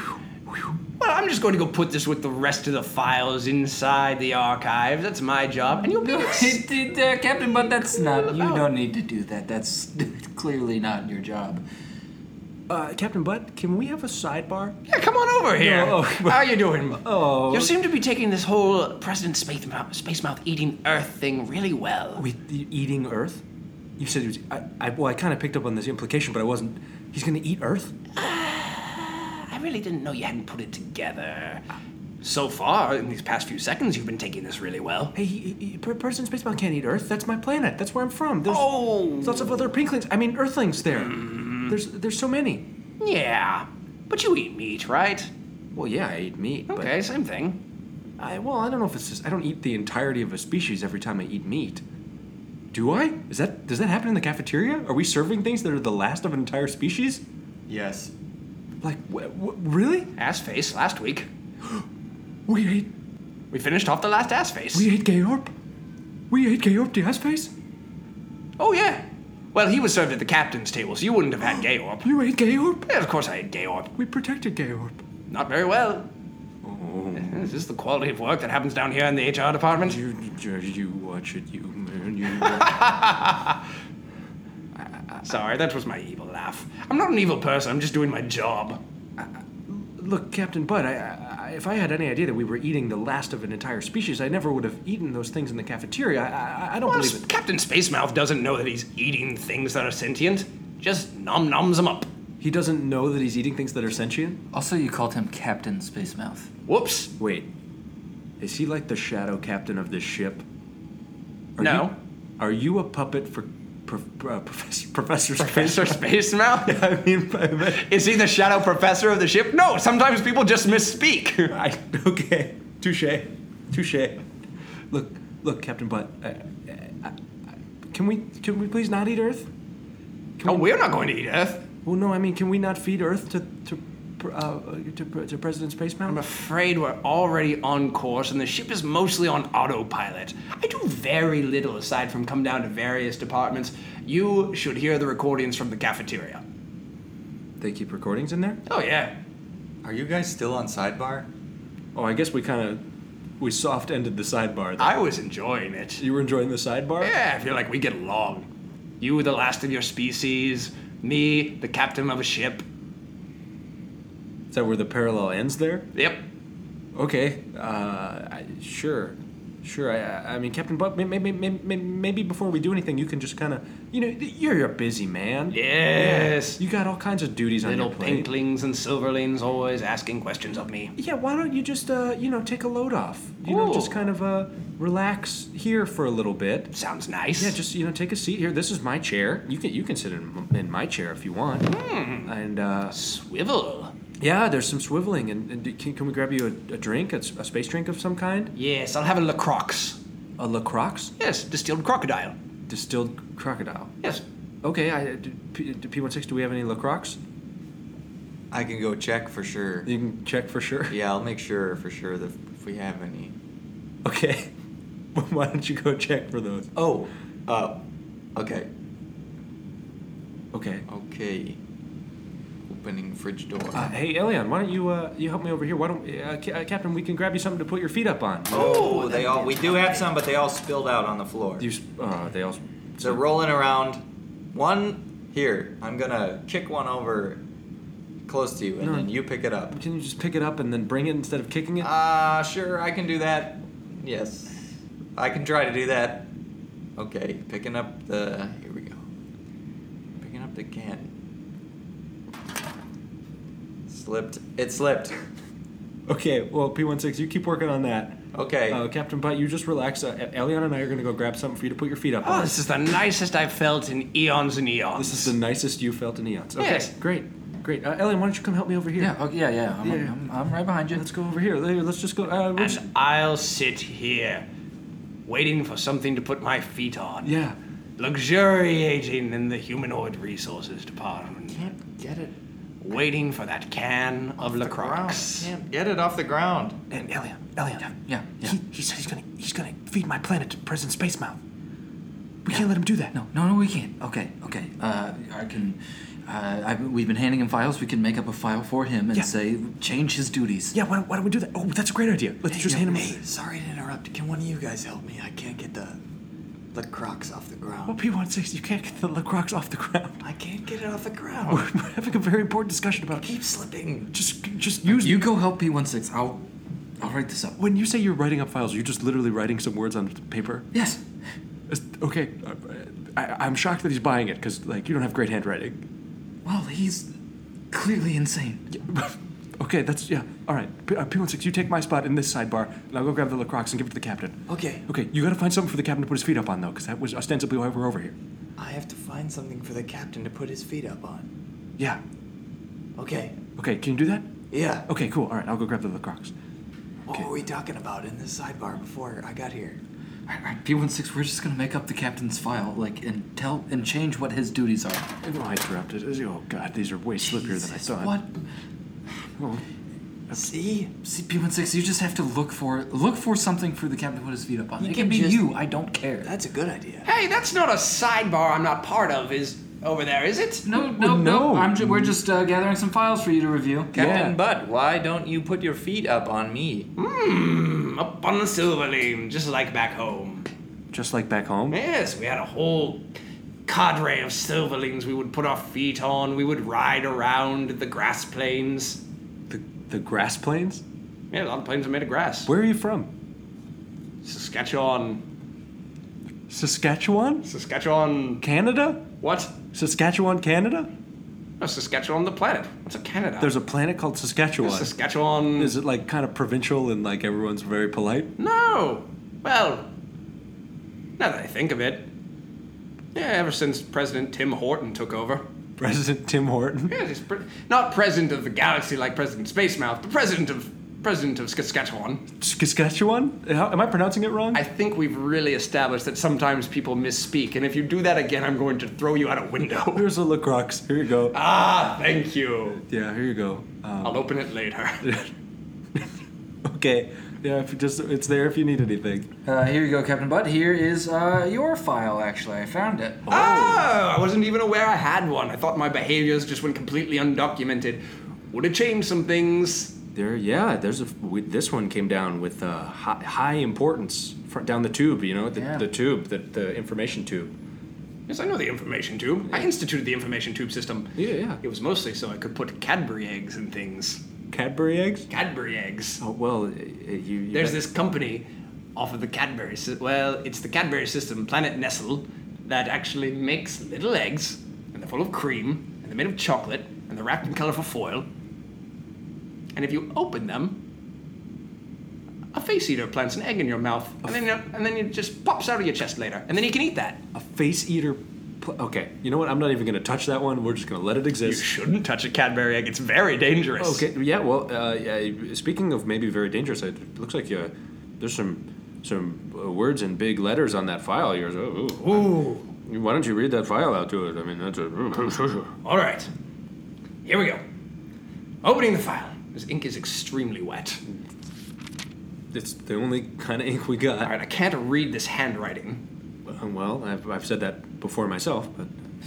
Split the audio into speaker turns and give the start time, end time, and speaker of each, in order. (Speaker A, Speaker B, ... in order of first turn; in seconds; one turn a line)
Speaker A: 1.0-6.7
Speaker B: 5.8-11.6
Speaker A: 8.0-8.7
Speaker C: 12.7-14.8
Speaker A: 14.9-22.2
Speaker C: 15.6-17.7
Speaker C: 22.2-23.4
Speaker C: 24.0-28.0
Speaker A: 28.2-31.6
Speaker A: 32.2-35.1
Speaker C: 35.1-42.7
Speaker A: 38.5-39.7
Speaker A: 40.9-41.8
Speaker A: 43.0-45.3
Speaker C: 45.7-46.9
Speaker A: 46.7-47.6
Speaker C: 48.2-51.8
Speaker C: 52.7-57.2
Speaker D: 57.7-58.1
Speaker C: 58.8-60.1
Speaker A: 60.2-61.3
Speaker C: 62.5-62.9
Speaker A: 63.5-64.9
Speaker C: 64.7-65.5
Speaker C: 66.3-67.5
Speaker A: 68.6-72.1
Speaker C: 72.0-72.9
Speaker A: 72.9-73.9
Speaker C: 74.0-75.0
Speaker A: 75.3-76.1
Speaker C: 76.6-77.5
Speaker A: 77.2-80.0
Speaker C: 79.8-82.8
Speaker A: 82.4-83.6
Speaker C: 84.8-85.2
Speaker A: 85.2-88.8
Speaker C: 89.2-97.2
Speaker A: 96.9-102.1
Speaker C: 102.4-104.4
Speaker B: 104.5-106.5
Speaker A: 106.7-107.1
Speaker C: 107.2-107.5
Speaker C: 108.4-110.4
Speaker C: 111.6-116.0
Speaker A: 111.6-112.0
Speaker A: 115.4-116.8
Speaker C: 116.7-117.9
Speaker A: 117.6-121.5
Speaker C: 121.4-124.2
Speaker C: 124.9-127.2
Speaker C: 127.9-129.5
Speaker C: 130.4-130.7
Speaker A: 130.4-131.7
Speaker C: 131.8-136.2
Speaker A: 136.1-146.4
Speaker C: 147.6-148.6
Speaker A: 148.7-149.2
Speaker D: 149.8-151.3
Speaker C: 151.9-152.8
Speaker C: 153.4-154.9
Speaker A: 154.8-156.0
Speaker C: 156.0-157.2
Speaker A: 157.0-158.5
Speaker A: 159.0-162.6
Speaker C: 164.5-165.9
Speaker A: 165.9-166.2
Speaker C: 166.9-178.3
Speaker A: 175.5-176.6
Speaker A: 177.6-180.9
Speaker C: 181.0-186.7
Speaker A: 183.4-184.0
Speaker A: 186.7-187.6
Speaker C: 187.4-191.7
Speaker A: 191.7-192.3
Speaker C: 192.2-193.0
Speaker A: 192.9-193.9
Speaker C: 194.2-198.5
Speaker A: 198.6-200.0
Speaker C: 200.4-201.1
Speaker A: 201.2-202.3
Speaker C: 202.7-203.9
Speaker C: 204.6-207.2
Speaker D: 208.5-209.9
Speaker C: 209.9-211.0
Speaker D: 210.9-213.3
Speaker C: 214.0-214.5
Speaker C: 215.2-216.7
Speaker D: 216.8-217.8
Speaker D: 218.3-218.7
Speaker C: 220.5-220.8
Speaker D: 220.9-221.6
Speaker D: 222.7-223.9
Speaker C: 223.7-228.9
Speaker D: 228.5-231.7
Speaker A: 228.5-230.1
Speaker C: 231.6-233.2
Speaker D: 233.0-234.0
Speaker D: 234.5-237.4
Speaker D: 238.3-239.8
Speaker C: 238.8-239.1
Speaker C: 239.7-241.9
Speaker D: 241.8-244.6
Speaker D: 245.2-246.3
Speaker D: 247.0-249.0
Speaker D: 250.2-251.1
Speaker D: 253.9-255.2
Speaker C: 256.1-262.5
Speaker D: 258.3-258.8
Speaker A: 262.2-265.3
Speaker C: 265.0-269.1
Speaker A: 266.6-266.9
Speaker B: 269.0-271.1
Speaker C: 269.8-270.1
Speaker C: 270.9-272.9
Speaker A: 272.6-274.5
Speaker A: 275.3-277.3
Speaker C: 277.2-277.6
Speaker A: 278.0-281.7
Speaker D: 281.5-282.3
Speaker A: 282.8-285.5
Speaker D: 284.4-286.8
Speaker C: 286.9-287.9
Speaker B: 287.9-288.6
Speaker C: 288.4-291.4
Speaker C: 292.4-293.1
Speaker B: 292.5-300.8
Speaker C: 300.7-303.2
Speaker D: 302.5-306.0
Speaker D: 306.7-308.0
Speaker C: 307.9-310.2
Speaker D: 310.2-311.7
Speaker C: 311.5-313.3
Speaker D: 313.1-314.1
Speaker C: 314.1-315.2
Speaker B: 314.8-316.4
Speaker B: 317.0-317.6
Speaker C: 317.6-320.7
Speaker B: 320.7-321.0
Speaker C: 321.7-325.8
Speaker B: 326.4-327.1
Speaker B: 327.7-328.7
Speaker C: 328.8-338.1
Speaker D: 334.5-334.9
Speaker D: 338.6-341.3
Speaker D: 343.0-343.4
Speaker C: 343.6-344.3
Speaker D: 344.5-344.9
Speaker C: 344.9-346.3
Speaker D: 347.1-349.8
Speaker B: 350.3-355.1
Speaker C: 355.2-358.2
Speaker B: 357.3-358.3
Speaker C: 359.4-359.6
Speaker D: 360.3-360.9
Speaker B: 361.0-366.3
Speaker D: 364.9-365.4
Speaker D: 366.2-367.1
Speaker A: 367.1-370.7
Speaker B: 370.7-374.4
Speaker C: 370.9-372.1
Speaker D: 373.9-376.9
Speaker C: 373.9-374.3
Speaker A: 377.0-380.5
Speaker C: 380.9-381.8
Speaker A: 381.7-383.1
Speaker A: 383.7-389.0
Speaker C: 389.5-390.8
Speaker A: 391.3-392.5
Speaker C: 392.5-393.1
Speaker A: 394.2-395.2
Speaker C: 396.5-397.5
Speaker A: 397.4-398.4
Speaker C: 398.4-400.9
Speaker A: 399.2-399.6
Speaker A: 401.6-403.5
Speaker C: 403.4-404.9
Speaker A: 404.6-405.8
Speaker C: 405.6-408.3
Speaker A: 408.4-409.9
Speaker A: 411.2-412.1
Speaker A: 413.1-415.4
Speaker C: 415.8-417.0
Speaker A: 416.9-422.3
Speaker C: 422.4-424.6
Speaker A: 424.5-430.1
Speaker C: 429.9-431.4
Speaker A: 431.3-432.8
Speaker C: 432.8-434.3
Speaker A: 434.0-435.0
Speaker C: 435.0-435.3
Speaker C: 436.6-439.3
Speaker B: 439.5-443.3
Speaker C: 443.3-443.9
Speaker A: 443.3-450.0
Speaker C: 450.1-457.5
Speaker B: 455.6-455.9
Speaker A: 458.3-464.2
Speaker C: 461.2-461.6
Speaker C: 464.5-465.3
Speaker A: 465.3-466.2
Speaker C: 466.2-467.8
Speaker A: 467.5-478.3
Speaker A: 479.8-480.8
Speaker A: 482.5-487.2
Speaker C: 487.3-491.6
Speaker A: 491.4-494.1
Speaker C: 493.8-502.3
Speaker A: 502.0-502.7
Speaker C: 502.8-505.7
Speaker A: 505.8-506.3
Speaker A: 507.2-507.6
Speaker A: 508.6-511.0
Speaker C: 512.5-514.3
Speaker A: 514.2-516.0
Speaker C: 516.5-518.9